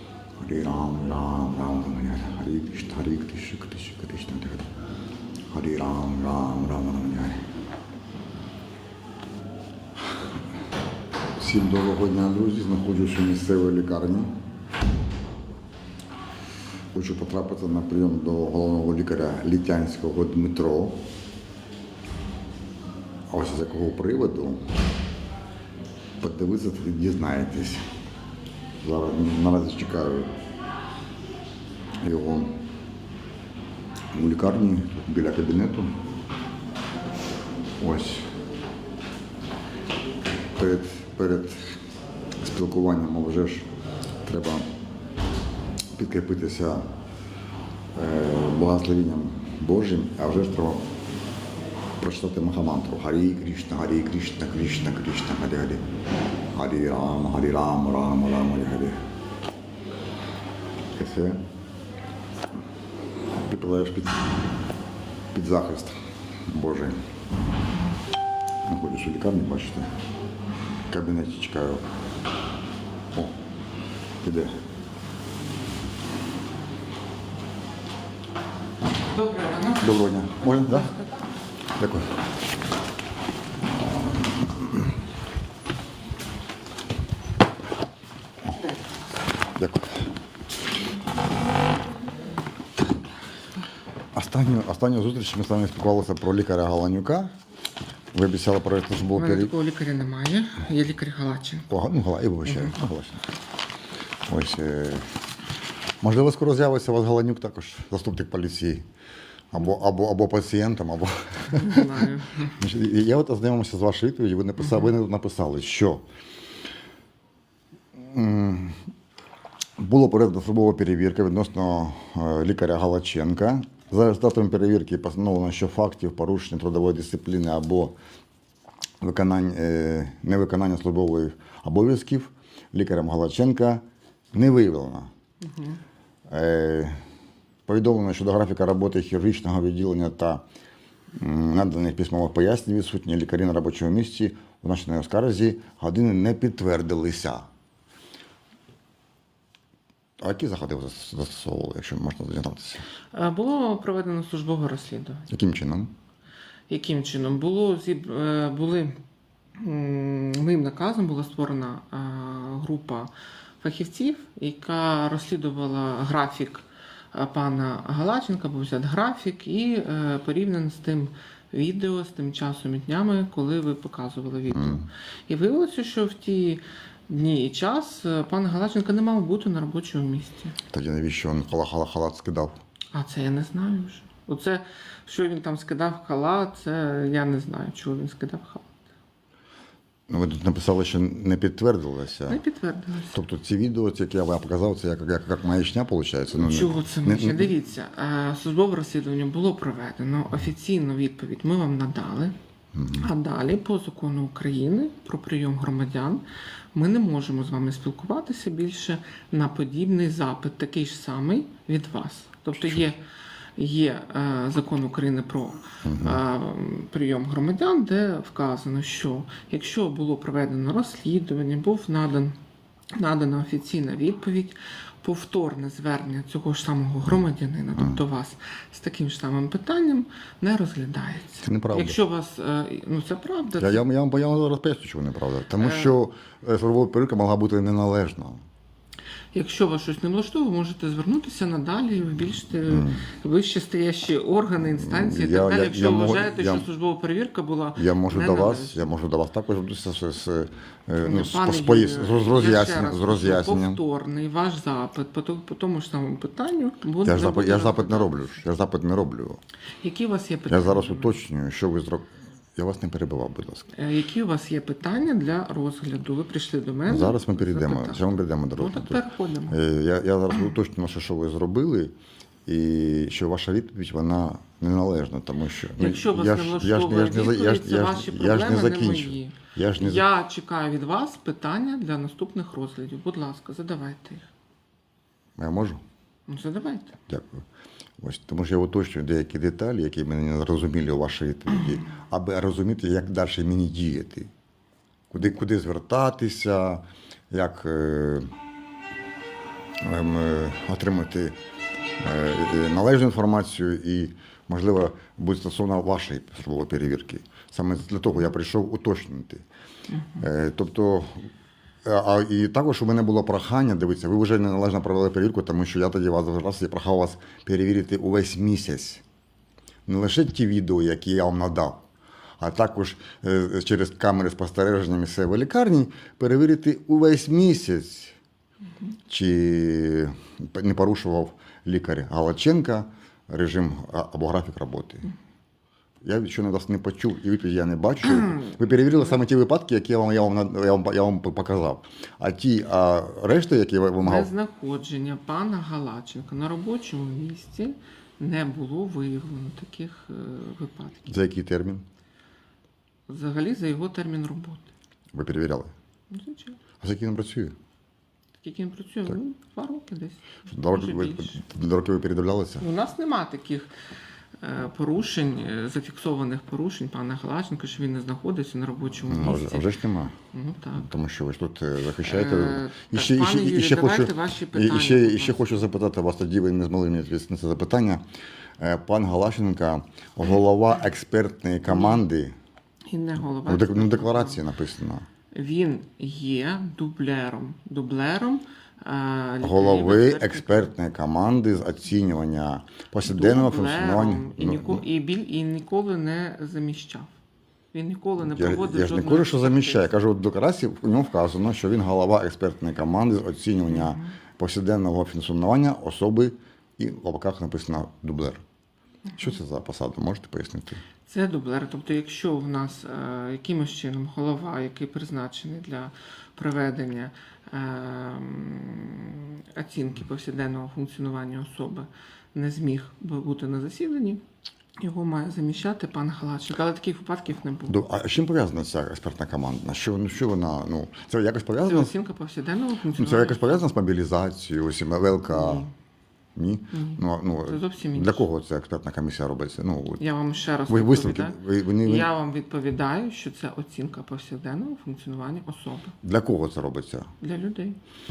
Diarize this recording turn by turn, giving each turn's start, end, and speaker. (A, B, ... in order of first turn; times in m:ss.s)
0:00.4-0:04.7 A
0:05.5-0:07.4 A
0:11.4-0:14.4 A
0:16.9-0:21.0 A
0:23.3-0:24.6 A
0:26.2-0:27.8 A
0:28.8-0:30.3 A
0:32.0-0:32.6 A
0:34.1-0:36.0 A
0:37.8-0:38.3 A
0:40.5-0:41.8 A
0:42.4-0:43.7 A
0:44.2-0:44.7 A
0:45.9-0:46.8 A
0:47.9-0:50.9 A
0:52.0-0:55.9 A
0:56.5-0:59.0 A
1:00.9-1:01.5 A
1:03.4-1:04.2 A
1:05.3-1:07.1 A
1:08.6-1:09.9 A
1:10.9-1:11.8 A
1:14.2-1:14.5 A
1:19.1-1:19.8 B
1:19.8-1:20.9 A
1:21.8-1:22.1 A
1:24.1-1:24.9 A
1:29.5-1:30.1 A
1:34.1-1:37.3 A
1:38.1-1:39.5 A
1:39.2-1:41.7 B
1:41.7-1:43.2 A
1:44.3-1:45.1 A
1:46.0-1:48.9 A
1:49.5-1:52.0 A
1:51.5-1:52.5 B
1:52.6-1:56.0 A
1:58.0-1:58.8 A
1:59.8-2:08.0 A
2:09.0-2:15.1 A
2:15.5-2:15.8 B
2:16.3-2:17.0 A
2:17.7-2:20.4 A
2:21.1-2:27.5 A
2:30.2-2:32.8 A
2:33.1-2:35.3 B
2:35.3-2:35.9 A
2:36.7-2:39.0 B
2:39.6-3:00.6 B
2:54.5-2:54.9 A
3:00.7-3:02.6 A
3:02.9-3:08.7 B
3:10.1-3:12.4 A
3:12.3-3:13.2 B
3:13.1-3:17.5 A
3:16.4-3:22.3 B
3:22.7-3:23.1 A
3:22.9-3:33.0 B
3:32.6-3:32.8 A
3:33.6-3:42.4 B
3:35.8-3:36.2 A
3:42.9-3:53.8 B
3:47.7-3:48.0 A
3:51.4-3:52.0 A
3:53.6-3:58.4 A
3:55.6-3:56.0 B
3:59.3-4:08.9 B
4:02.7-4:03.0 A
4:04.6-4:06.6 A
4:07.8-4:13.8 A
4:11.0-4:18.4 B
4:17.0-4:19.4 A
4:19.8-4:21.2 B
4:20.5-4:23.7 A
4:23.7-4:28.0 B
4:26.9-4:31.9 A
4:28.6-4:29.6 B
4:32.4-4:40.0 A
4:35.8-4:44.3 B
4:45.4-4:45.8 A
4:46.3-4:47.0 B
4:47.1-4:47.4 A
4:48.0-4:54.3 A
4:55.1-4:58.3 A
4:59.8-5:01.4 A
5:02.0-5:09.4 A
5:09.9-5:10.2 B
5:10.2-5:11.3 A
5:11.8-5:19.0 A
5:19.8-5:21.8 A
5:22.4-5:28.2 A
5:29.1-5:35.1 A
5:36.0-5:44.3 A
5:38.1-5:38.5 B
5:44.0-5:51.1 B
5:51.1-5:51.8 A
5:53.1-5:54.6 B
5:55.1-5:55.7 A
5:56.1-5:56.6 B
5:56.8-5:57.5 A
5:58.4-6:01.4 B
6:00.5-6:02.6 A
6:02.6-6:03.7 B
6:04.4-6:09.6 B
6:09.0-6:10.1 A
6:10.3-6:10.9 B
6:10.8-6:18.0 A
6:12.0-6:15.6 B
6:18.6-6:22.3 A
6:21.7-6:22.0 B
6:22.9-6:24.4 B
6:23.4-6:25.0 A
6:25.3-6:30.7 B
6:29.4-6:34.8 A
6:33.0-6:37.1 B
6:37.7-6:39.9 B
6:38.2-6:48.4 A
6:43.7-6:44.1 B
6:49.2-6:50.8 A
6:51.0-7:04.2 B
7:04.8-7:07.8 B
7:07.7-7:11.9 A
7:11.6-7:13.7 B
7:12.9-7:15.7 A
7:15.3-7:15.7 B
7:16.4-7:20.0 A
7:16.7-7:18.3 B
7:20.0-7:25.9 B
7:20.7-7:22.1 A
7:26.0-7:27.1 A
7:27.2-7:27.8 B